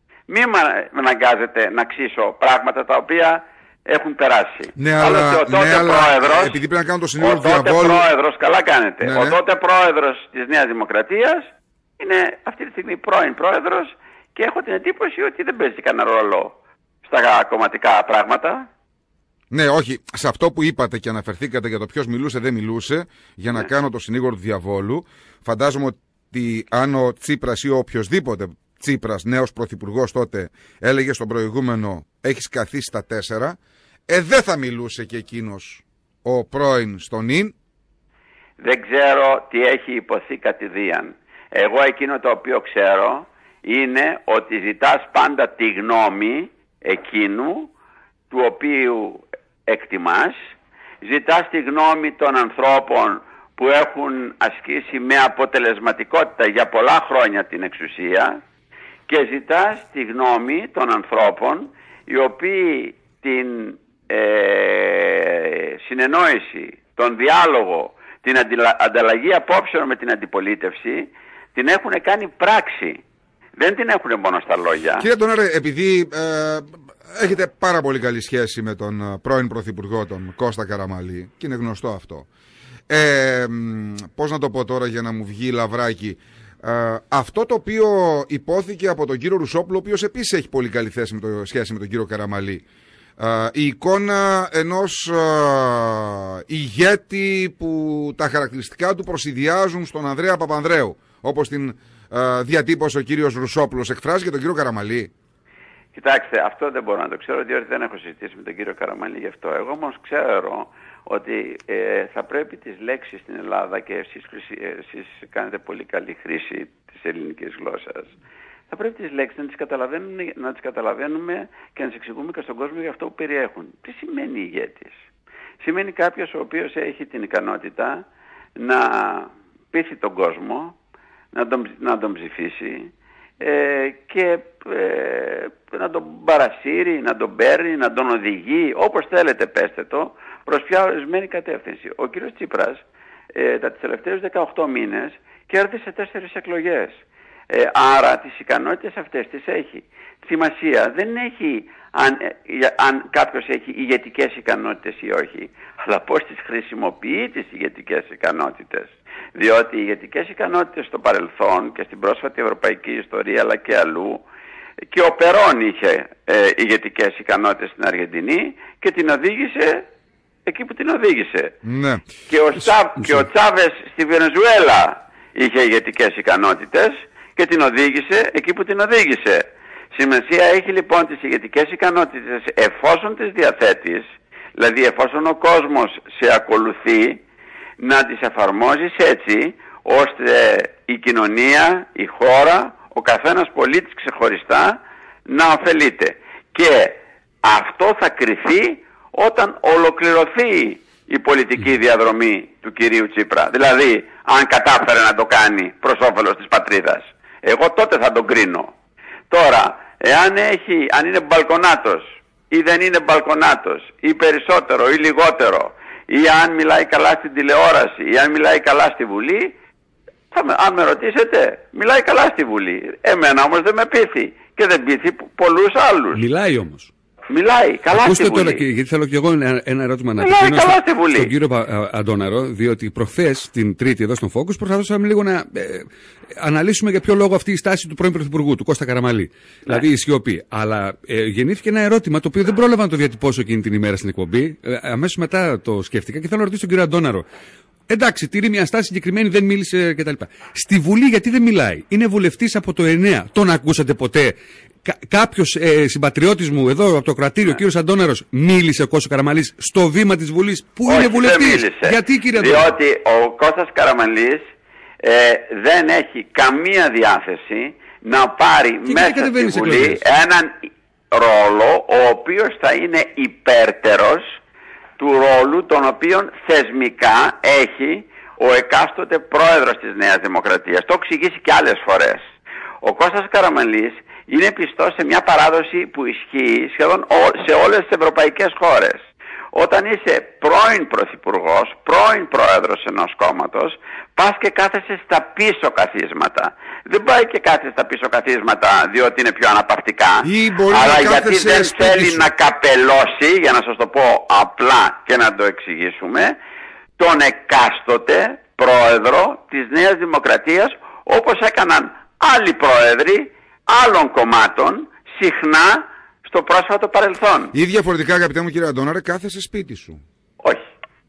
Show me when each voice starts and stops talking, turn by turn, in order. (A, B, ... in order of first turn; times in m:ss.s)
0:00.3-0:06.6 A
0:04.8-0:08.0 B
0:07.2-0:18.7 A
0:09.0-0:09.4 B
0:19.5-0:33.6 B
0:34.1-0:37.5 B
0:38.6-0:47.7 A
0:48.3-0:50.4 A
0:51.0-0:58.4 A
0:59.1-1:13.0 A
1:13.6-1:15.1 A
1:15.0-1:22.3 B
1:22.9-1:32.6 B
1:33.2-1:45.1 B
1:45.9-1:58.1 A
1:58.7-2:05.0 A
2:05.6-2:08.0 A
2:08.6-2:10.8 A
2:11.3-2:22.8 A
2:23.3-2:27.0 A
2:27.5-2:44.2 A
2:44.9-2:49.8 A
2:50.5-2:51.6 A
2:51.6-2:52.1 B
2:52.3-3:07.2 A
3:07.8-3:28.7 A
3:29.3-3:39.6 A
3:40.3-3:46.2 A
3:46.1-3:46.9 C
3:47.3-3:48.6 A
3:47.9-3:55.8 C
3:50.2-3:51.3 A
3:56.4-4:07.3 C
4:07.9-4:22.7 C
4:20.9-4:24.4 A
4:25.0-4:34.4 A
4:28.8-4:30.0 C
4:35.0-4:42.3 A
4:42.8-5:06.4 A
5:00.2-5:02.3 B
5:07.0-5:17.5 A
5:17.5-5:20.0 B